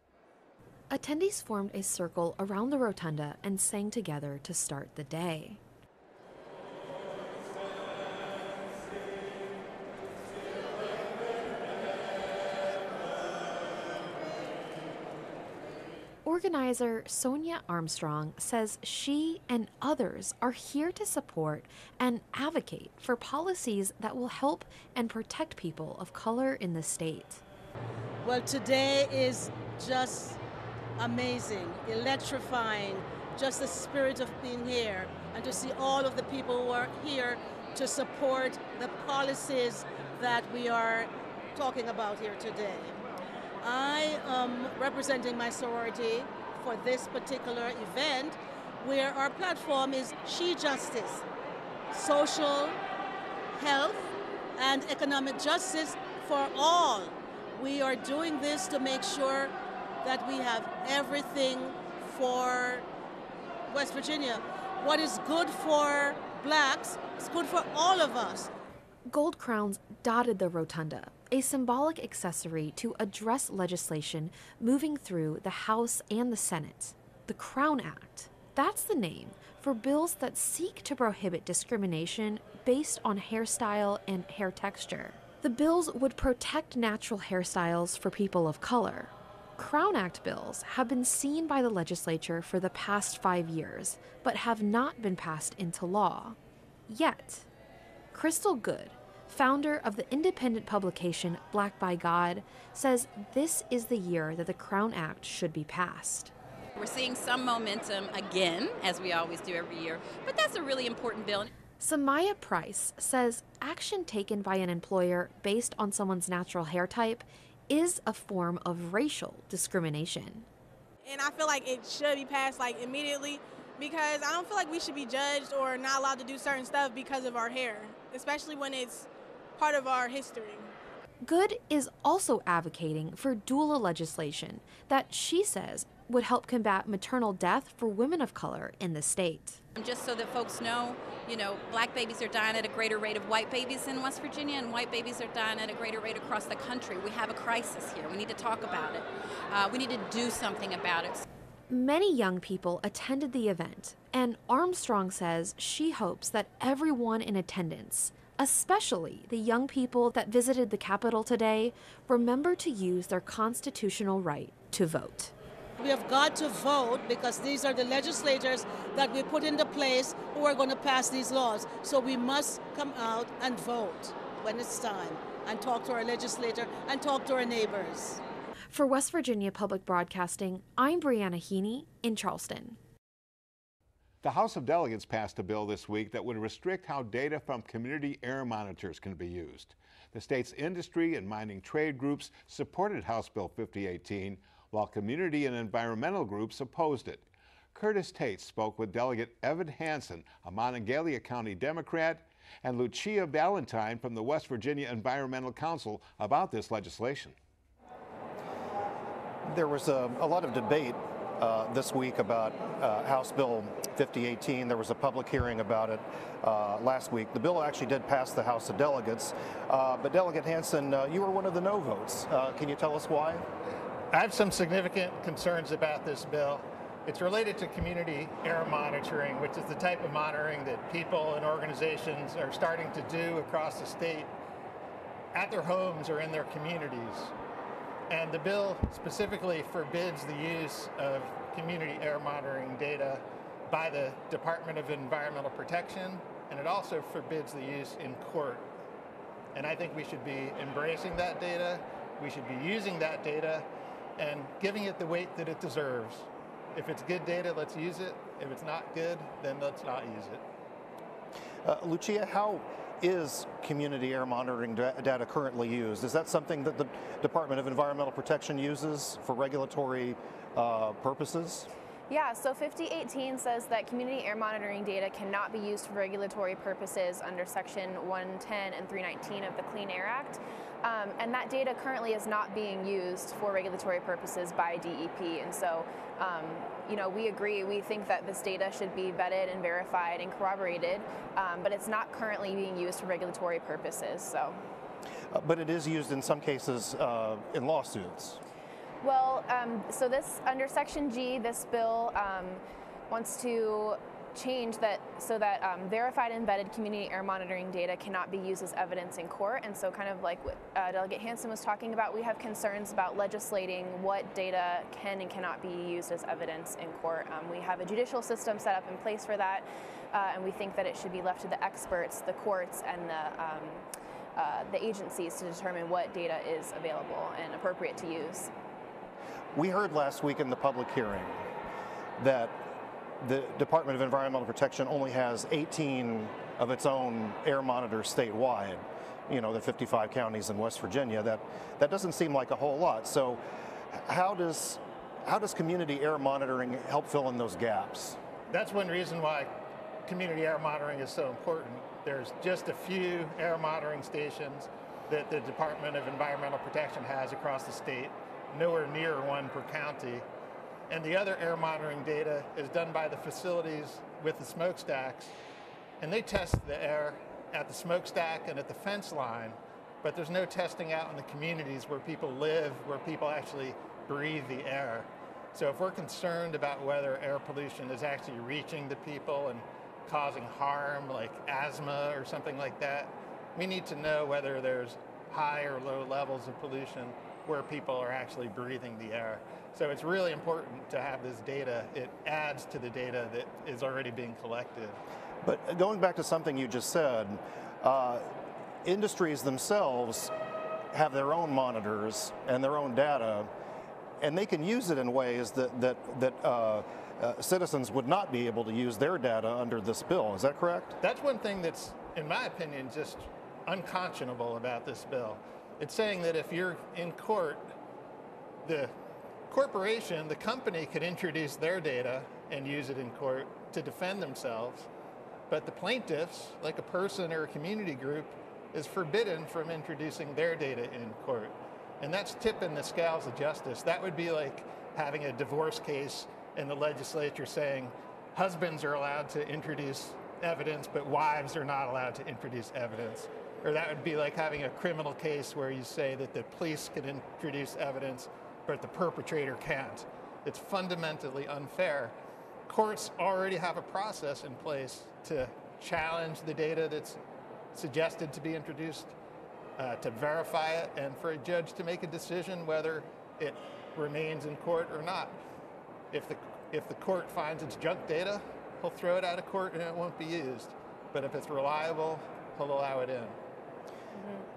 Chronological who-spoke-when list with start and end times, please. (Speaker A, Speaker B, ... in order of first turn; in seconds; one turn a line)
Speaker A: 0.9-5.6
Speaker A: 16.2-27.4
Speaker B: 28.2-30.4
Speaker B: 31.0-43.0
Speaker B: 43.6-51.2
Speaker B: 51.9-52.8
Speaker B: 53.5-62.9
Speaker B: 63.7-68.5
Speaker A: 69.1-96.4
Speaker A: 96.9-97.5
Speaker A: 98.1-106.3
Speaker C: 106.8-111.5
Speaker A: 111.8-120.5
Speaker D: 121.0-130.7
Speaker A: 131.2-139.6
Speaker C: 139.8-151.2
Speaker A: 151.7-165.3
Speaker B: 165.8-178.2
Speaker A: 178.7-182.8
Speaker E: 184.2-207.4
Speaker F: 209.4-223.4
Speaker G: 224.1-234.3
Speaker G: 235.3-237.3
Speaker G: 238.1-248.7
Speaker G: 249.5-253.7
Speaker G: 254.2-260.4
Speaker F: 261.6-271.7
Speaker H: 272.1-294.6
Speaker F: 295.3-298.4
Speaker H: 299.0-323.9
Speaker H: 324.4-328.5
Speaker F: 329.5-331.4
Speaker F: 332.2-332.6
Speaker F: 333.2-348.2
Speaker G: 348.5-349.5
Speaker G: 350.1-360.2
Speaker G: 360.9-365.3
Speaker G: 366.0-395.0
Speaker F: 395.4-398.3
Speaker F: 398.8-400.3
Speaker F: 400.9-403.5
Speaker F: 404.2-411.0
Speaker G: 411.0-417.7
Speaker G: 418.6-418.9
Speaker G: 419.5-424.9
Speaker G: 425.5-452.1
Speaker G: 452.7-457.2
Speaker G: 457.7-459.1
Speaker G: 459.8-465.4
Speaker G: 466.1-473.4
Speaker H: 474.1-474.4